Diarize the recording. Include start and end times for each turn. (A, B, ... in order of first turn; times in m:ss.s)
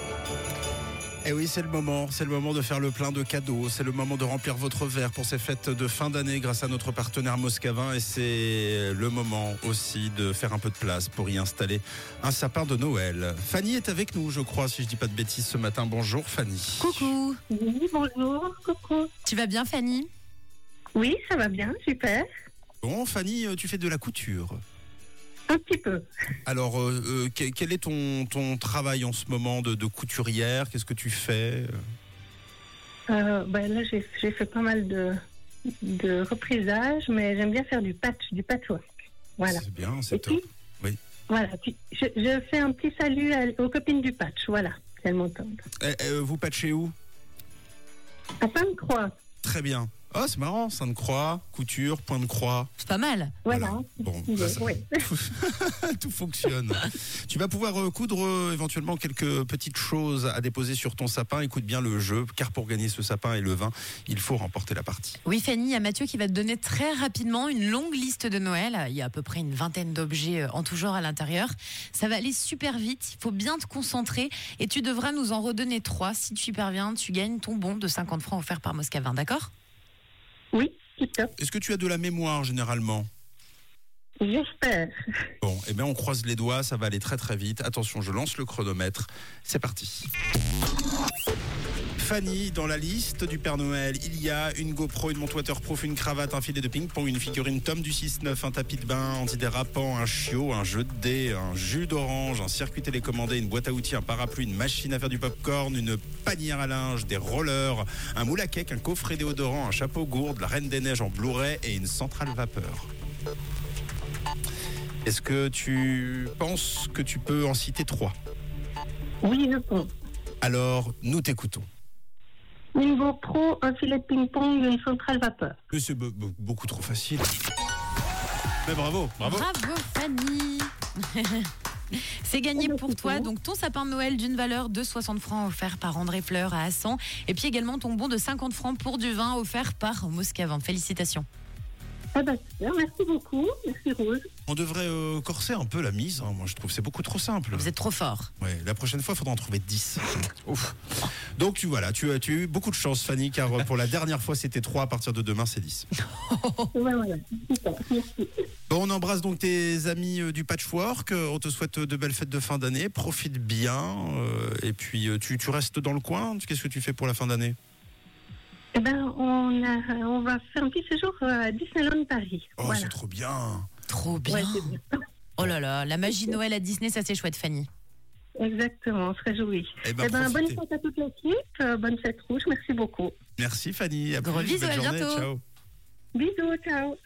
0:01.2-0:17.1 A
0:16.8-0:17.4 B
0:17.5-0:19.1 C
0:19.2-0:20.1 B
0:20.9-0:22.3 C
0:22.8-0:24.6 A
0:25.5-0:26.0 C
0:26.4-0:31.8 A
0:33.1-0:35.2 C
0:35.7-0:38.8 C
0:39.4-0:40.4 C
0:39.5-0:41.0 A
0:41.3-0:45.6 C
0:45.8-0:46.9 A
0:48.4-0:49.1 C
0:49.4-0:52.7 A
0:52.8-0:53.4 B
0:53.4-0:55.0 C
0:53.5-1:05.2 A
1:05.2-1:19.5 B
1:20.5-1:21.3 C
1:21.4-1:23.1 A
1:24.2-1:24.9 C
1:25.4-1:30.1 A
1:32.0-1:52.9 A
1:55.0-1:58.1 A
1:59.2-1:59.9 C
2:00.4-2:01.7 A
2:02.7-2:05.6 C
2:05.7-2:07.3 A
2:08.6-2:09.5 A
2:09.2-2:21.2 B
2:12.6-2:13.3 C
2:22.1-2:24.3 C
2:24.5-2:27.7 A
2:27.5-2:28.3 B
2:28.4-2:30.8 A
2:31.4-2:35.9 A
2:36.0-2:36.7 B
2:36.7-2:38.3 C
2:38.7-2:47.6 A
2:48.7-2:52.9 C
2:52.6-2:53.7 A
2:53.9-2:54.8 B
2:54.3-2:55.0 C
2:55.4-2:57.7 B
2:58.4-3:03.1 C
2:59.8-3:00.6 A
3:03.4-3:05.4 A
3:04.2-3:05.3 B
3:06.1-3:07.0 C